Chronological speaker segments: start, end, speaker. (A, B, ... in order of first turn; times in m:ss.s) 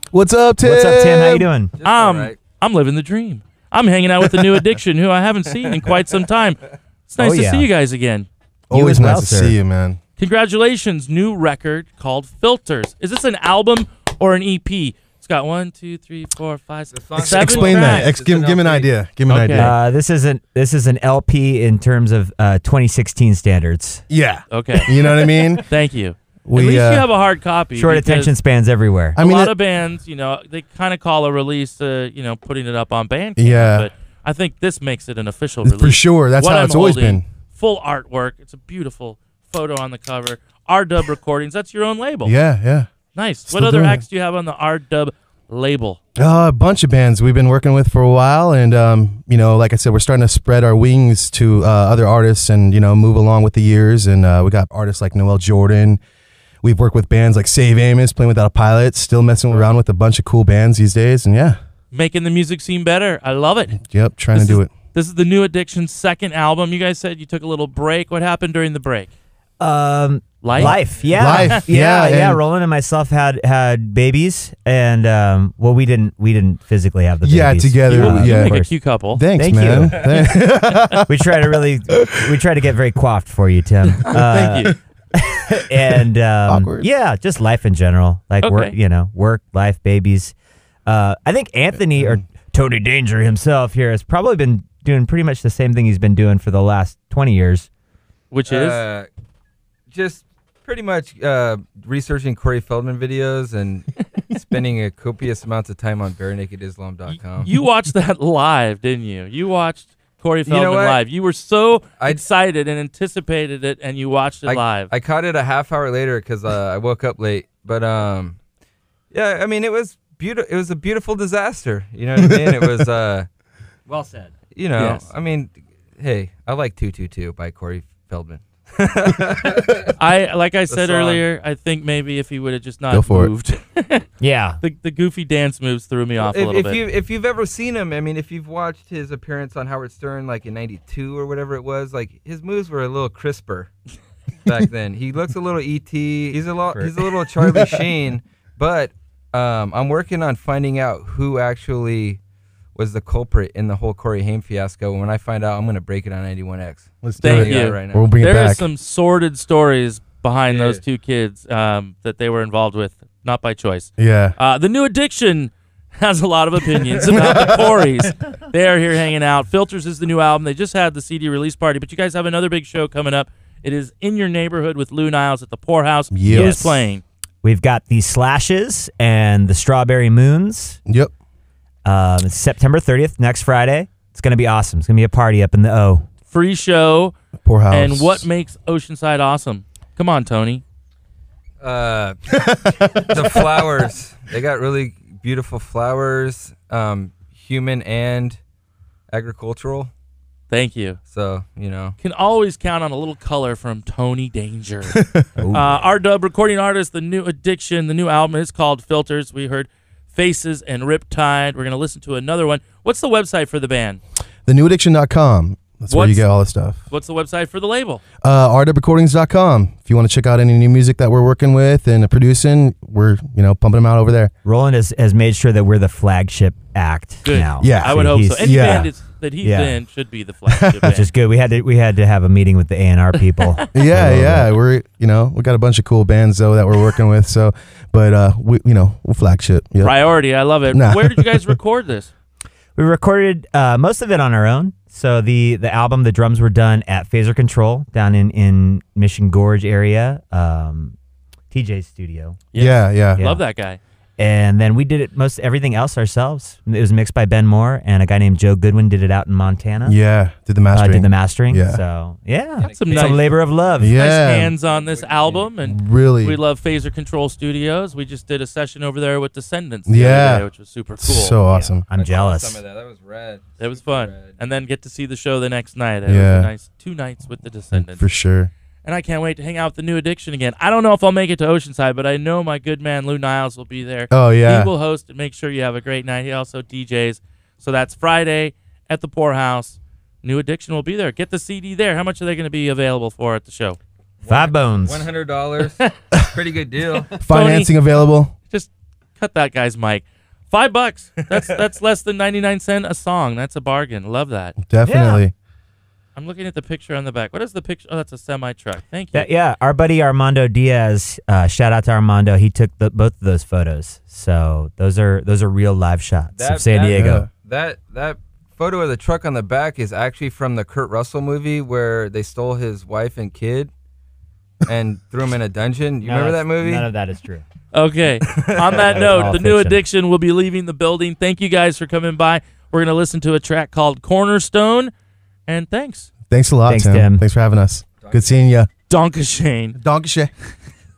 0:00.1-0:01.5 A
0:00.6-0:01.7 B
0:01.8-0:02.4 C
0:01.8-0:08.3 D
0:07.2-0:07.7 B
0:08.7-0:10.0 A
0:08.7-0:09.5 B
0:10.2-0:18.1 D
0:16.9-0:18.9 C
0:17.2-0:19.7 A
0:19.3-0:19.7 D
0:19.5-0:24.0 B
0:24.1-0:25.6 A
0:24.5-0:25.0 D
0:25.6-0:28.3 D
0:26.4-0:27.1 A
0:27.7-0:29.2 B
0:29.2-0:29.5 A
0:29.2-0:42.3 D
0:33.4-0:33.9 A
0:35.6-0:37.2 A
0:42.2-0:42.9 A
0:43.1-0:46.0 D
0:43.5-0:44.0 A
0:46.2-0:56.0 A
0:56.6-1:01.6 A
1:01.9-1:03.8 D
1:03.8-1:04.7 A
1:04.3-1:09.1 D
1:09.6-1:18.7 B
1:10.4-1:11.6 D
1:10.5-1:12.4 A
1:17.2-1:18.6 A
1:17.9-1:19.2 D
1:19.1-1:21.2 A
1:19.4-1:20.0 B
1:21.1-1:30.3 B
1:24.0-1:24.7 D
1:26.5-1:26.9 A
1:28.4-1:28.7 D
1:30.8-1:37.7 B
1:38.3-1:38.8 D
1:38.4-1:39.1 C
1:39.9-1:47.5 C
1:47.1-1:54.9 D
1:50.4-1:51.0 C
1:54.4-1:58.4 C
1:59.1-2:03.3 C
2:03.9-2:04.9 B
2:04.5-2:09.9 C
2:04.8-2:05.0 D
2:10.0-2:14.0 D
2:10.7-2:11.2 C
2:12.9-2:13.3 A
2:14.2-2:14.6 B
2:14.6-2:16.8 D
2:16.2-2:23.8 C
2:24.4-2:32.2 C
2:26.7-2:27.0 B
2:32.7-2:38.1 C
2:37.0-2:38.6 A
2:37.2-2:57.0 D
2:40.5-2:40.8 C
2:44.0-2:44.4 A
2:46.8-2:47.6 C
2:47.1-2:47.6 A
2:56.1-2:56.7 A
2:56.3-2:56.8 B
2:57.4-3:00.8 B
3:00.9-3:01.1 A
3:01.8-3:06.1 B
3:06.3-3:07.1 D
3:07.4-3:08.3 A
3:07.7-3:10.6 D
3:11.6-3:12.4 C
3:12.4-3:13.2 A
3:13.0-3:18.4 C
3:19.1-3:19.9 C
3:20.5-3:21.0 D
3:21.1-3:22.0 C
3:22.0-3:25.0 D
3:25.4-3:25.8 B
3:25.5-3:34.0 D
3:34.4-3:36.8 A
3:35.9-3:36.3 D
3:36.9-3:38.0 D
3:38.2-3:44.3 A
3:44.4-3:48.9 B
3:47.2-3:51.1 D
3:47.6-3:48.9 A
3:49.4-3:49.8 B
3:50.5-3:50.8 A
3:50.9-3:54.5 B
3:53.4-3:53.6 D
3:53.7-4:00.1 A
3:59.8-4:02.1 D
4:00.7-4:01.5 A
4:02.7-4:11.0 B
4:11.5-4:12.4 B
4:12.5-4:13.8 D
4:12.6-4:13.2 A
4:13.2-4:13.4 B
4:14.2-4:20.0 B
4:19.8-4:21.8 A
4:20.7-4:23.9 B
4:22.6-4:23.7 C
4:22.7-4:23.2 D
4:23.8-4:24.5 A
4:23.9-4:31.4 D
4:24.6-4:25.5 C
4:25.6-4:26.4 A
4:29.8-4:30.5 A
4:31.0-4:31.9 A
4:31.5-4:32.6 B
4:31.9-4:34.4 C
4:33.6-4:38.1 D
4:36.0-4:36.5 A
4:37.7-4:38.5 A
4:38.8-4:53.8 D
4:44.1-4:44.7 A
4:54.2-4:57.1 C
4:54.3-4:55.1 B
4:57.1-4:58.3 A
4:57.3-4:58.0 D
4:58.5-5:04.5 D
5:04.6-5:05.3 A
5:04.8-5:05.2 B
5:06.1-5:09.3 D
5:09.1-5:17.3 B
5:16.3-5:23.7 C
5:16.9-5:17.3 A
5:24.6-5:26.9 C
5:26.0-5:27.4 B
5:27.7-5:34.9 D
5:28.2-5:29.2 C
5:28.8-5:29.8 B
5:35.5-5:36.1 D
5:36.3-5:38.7 A
5:36.7-5:37.2 B
5:38.0-5:38.4 C
5:38.9-5:39.8 D
5:39.8-5:40.3 A